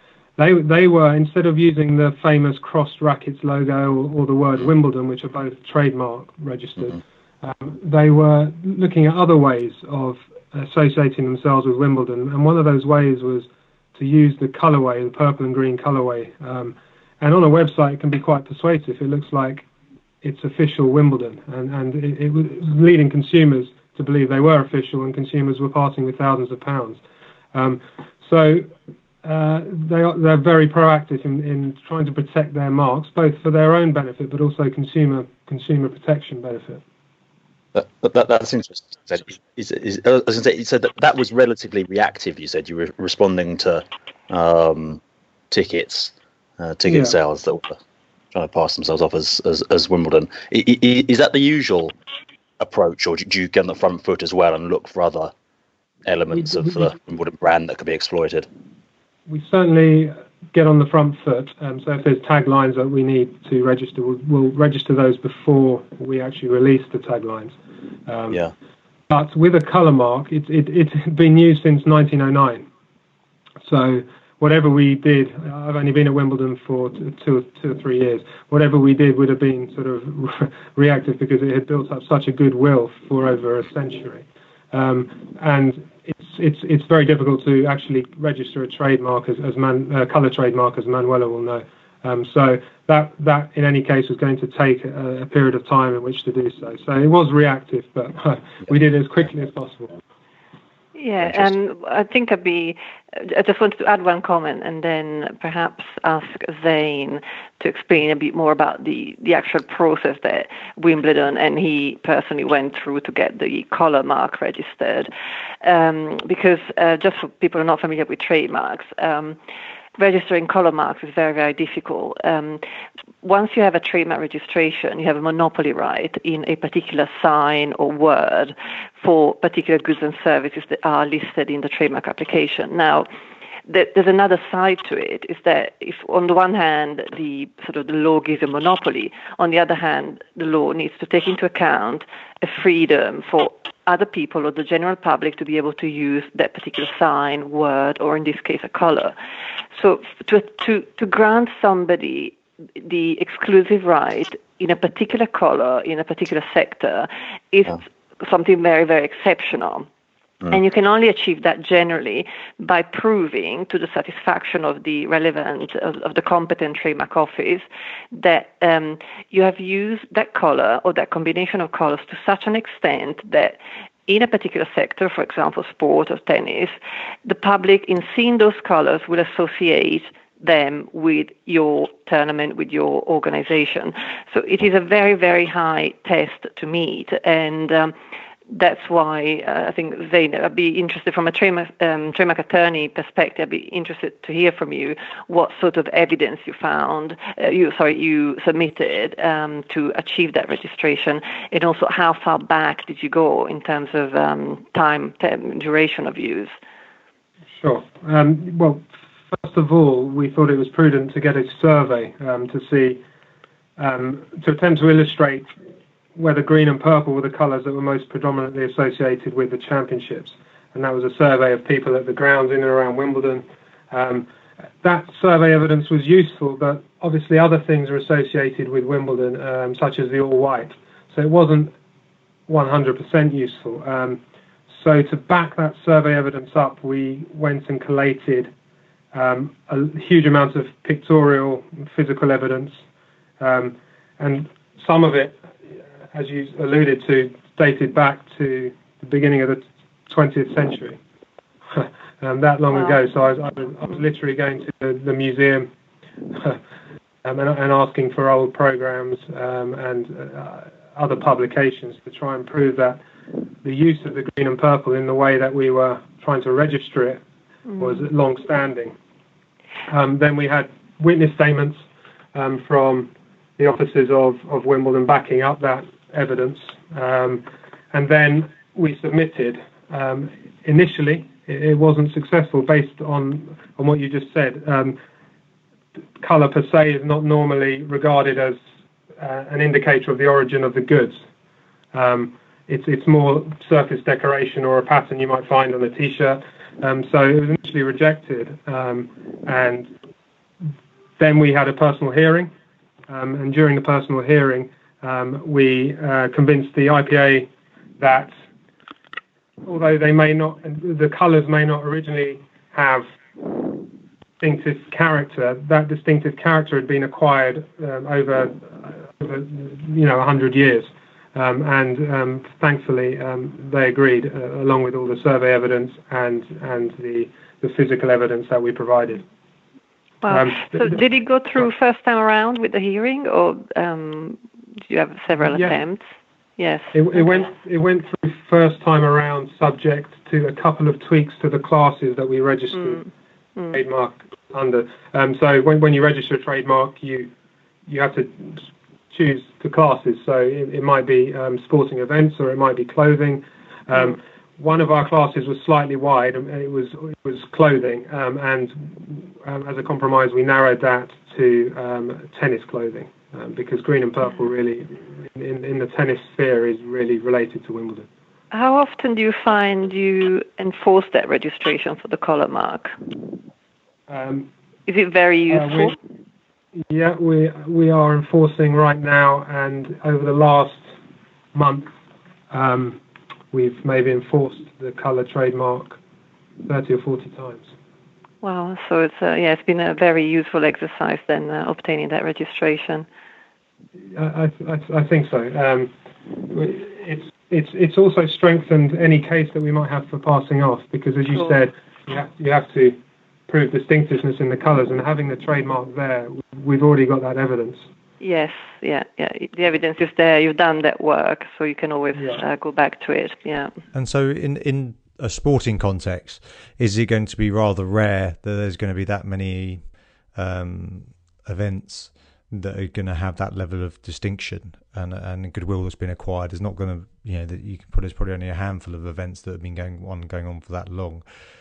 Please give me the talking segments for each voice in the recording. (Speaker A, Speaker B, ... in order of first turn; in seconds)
Speaker A: 0.4-19.7, 20.2-27.0, 27.5-28.7, 29.2-36.8, 46.9-47.2, 56.3-56.8, 59.3-67.5, 68.1-68.4, 69.1-72.7, 73.7-100.0, 207.6-213.0, 213.8-215.5, 216.2-224.3, 224.8-231.7, 232.5-238.5, 239.1-242.8, 243.4-251.0, 251.7-255.7, 256.3-256.6, 257.2-263.0, 263.6-267.2, 267.8-268.9, 269.9-271.8, 272.3-285.0, 286.2-288.6, 289.2-291.2, 291.9-299.9, 301.2-302.5, 303.1-307.5, 308.0-308.3, 309.6-313.8, 314.4-329.2, 330.3-331.0, 335.4-335.8, 336.9-343.0, 343.7-347.3, 347.9-368.1, 374.1-374.5, 375.5-375.9, 376.9-380.9, 381.5-381.9, 382.5-383.0, 383.5-386.0, 386.7-387.7, 394.1-395.9, 396.5-403.0, 403.5-407.9, 412.2-412.4
Speaker B: 37.7-47.8, 48.3-51.9, 52.6-55.3, 56.1-58.5
Speaker C: 101.0-115.1, 115.6-119.4, 120.0-122.6, 123.2-133.1, 133.7-149.2, 149.8-159.9, 160.5-187.9, 188.5-206.5, 330.2-336.1, 336.6-337.4, 368.5-373.3, 374.9-376.0, 388.4-393.1, 408.2-413.7
Speaker D: 413.9-419.8, 420.3-431.2